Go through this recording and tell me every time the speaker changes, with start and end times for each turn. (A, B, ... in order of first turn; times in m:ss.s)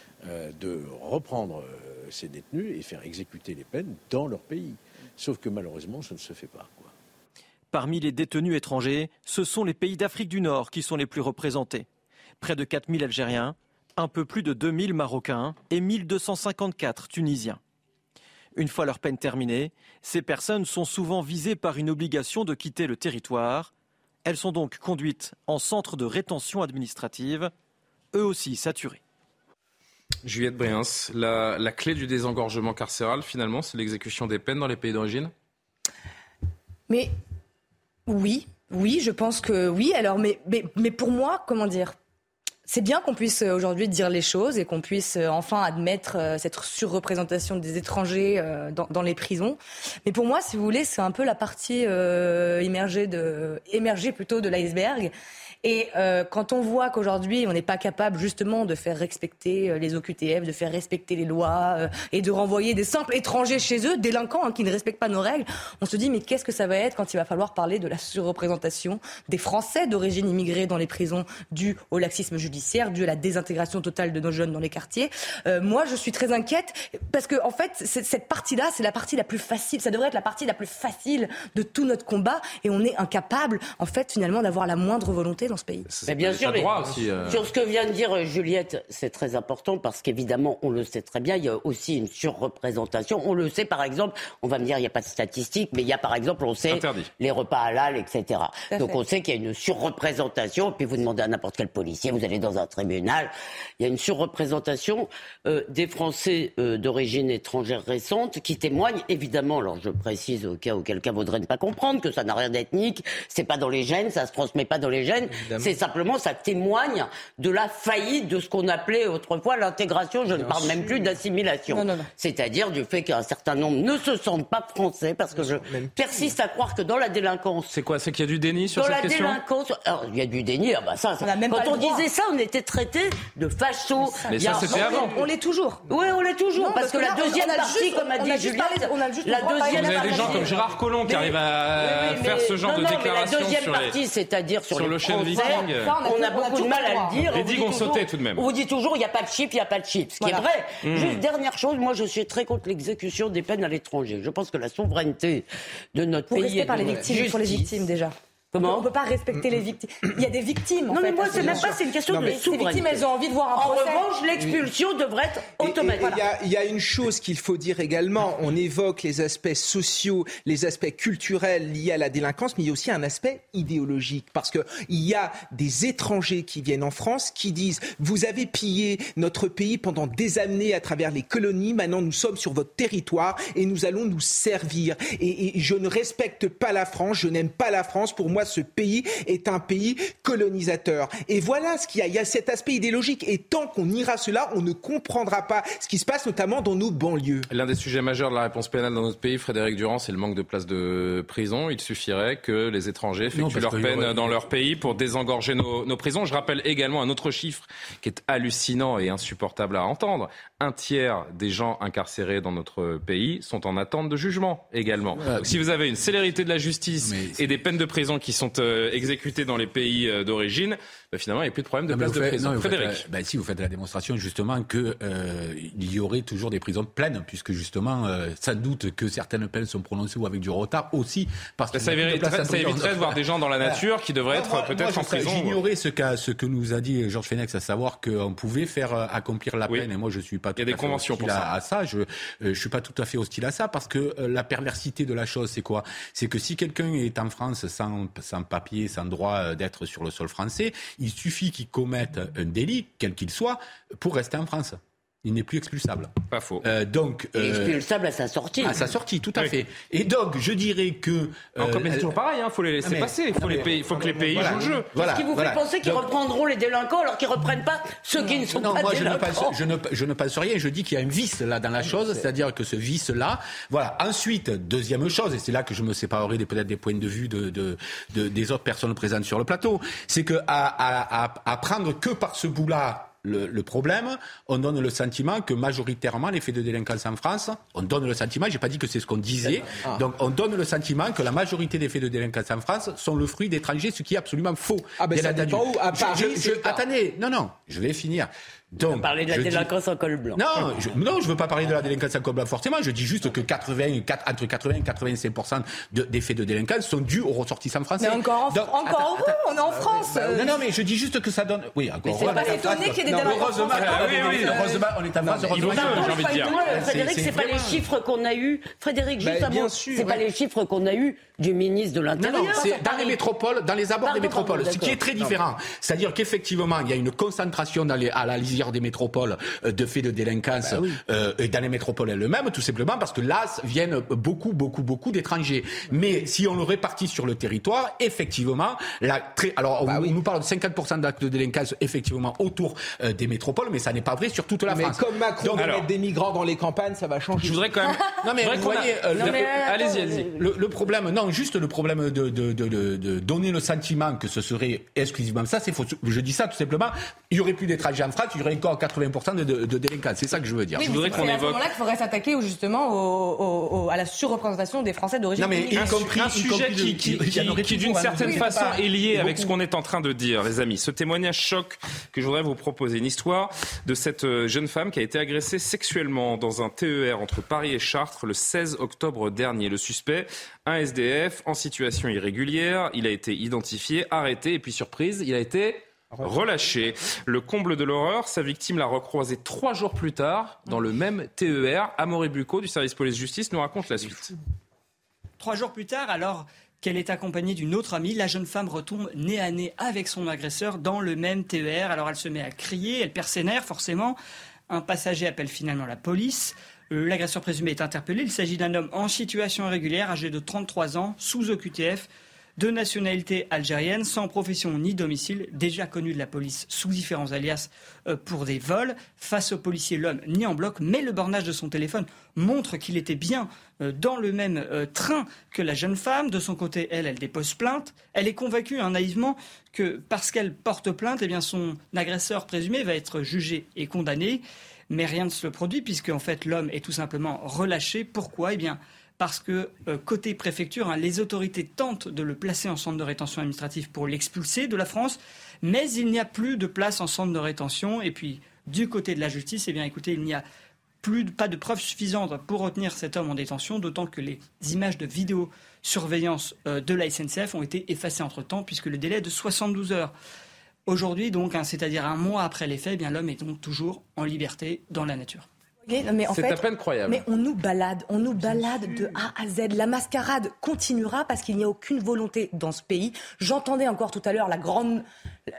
0:00.2-0:06.9 A
0:07.7-0:11.9 B
0:12.4-0:17.6 B
0:18.6-0:23.7 B
0:24.2-0:27.5 B
0:28.1-0:29.0 B
0:30.2-0:35.3 C
0:38.1-0:42.0 D
0:42.7-0:55.1 D
0:55.6-1:25.9 D
1:25.9-1:27.4 C
1:26.1-2:07.7 E
1:36.7-1:37.1 C
1:38.7-1:39.0 D
1:55.3-1:55.8 F
2:00.3-2:01.2 F
2:01.7-2:02.1 D
2:05.3-2:06.3 F
2:07.7-2:09.4 C
2:08.7-2:15.3 E
2:11.2-2:12.0 D
2:14.0-2:15.8 D
2:14.3-2:15.2 C
2:15.9-2:37.9 E
2:16.6-2:20.6 D
2:19.7-2:24.0 C
2:24.7-2:26.0 C
2:25.2-2:27.3 D
2:27.3-2:28.5 C
2:30.8-2:31.2 C
2:36.3-2:41.7 D
2:38.5-2:38.9 E
2:40.9-2:46.2 E
2:41.3-2:42.4 F
2:42.3-2:44.0 D
2:44.4-2:44.7 F
2:45.6-3:17.5 F
3:17.5-3:43.0 C
3:23.3-3:24.4 G
3:35.2-3:35.6 G
3:37.0-3:37.4 G
3:41.9-4:17.8 G
3:51.7-3:55.6 C
4:00.6-4:01.5 C
4:16.3-4:16.6 C
4:17.4-4:18.9 E
4:18.6-4:22.2 G
4:21.6-4:24.9 C
4:22.8-4:23.6 G
4:23.5-4:24.8 F
4:24.3-4:26.1 G
4:25.0-4:29.6 E
4:28.5-4:59.7 G
4:55.0-4:56.8 F
4:58.8-5:00.4 E
5:00.3-5:17.8 G
5:08.0-5:10.6 D
5:09.9-5:10.3 F
5:12.1-5:14.9 D
5:13.7-5:14.6 C
5:15.2-5:16.1 F
5:15.5-5:16.6 C
5:15.6-5:16.8 D
5:15.7-5:22.8 E
5:19.2-5:20.2 F
5:22.2-5:22.6 F
5:22.2-5:23.1 D
5:22.6-5:45.7 G
5:24.0-5:25.0 E
5:30.6-5:31.0 F
5:39.9-5:40.1 F
5:44.7-5:47.7 F
5:45.6-5:45.9 C
5:47.4-5:50.3 C
5:48.2-5:49.6 G
5:49.2-5:50.3 E
5:50.2-6:01.3 G
6:00.8-6:06.0 D
6:00.8-6:01.6 C
6:05.4-6:09.5 G
6:05.8-6:34.3 C
6:08.2-6:08.7 D
6:26.2-6:26.5 F
6:35.4-6:44.2 H
6:44.7-7:30.4 H
7:31.0-7:40.1 H
7:40.9-7:45.5 H
7:45.9-7:55.0 D
7:46.3-7:47.2 C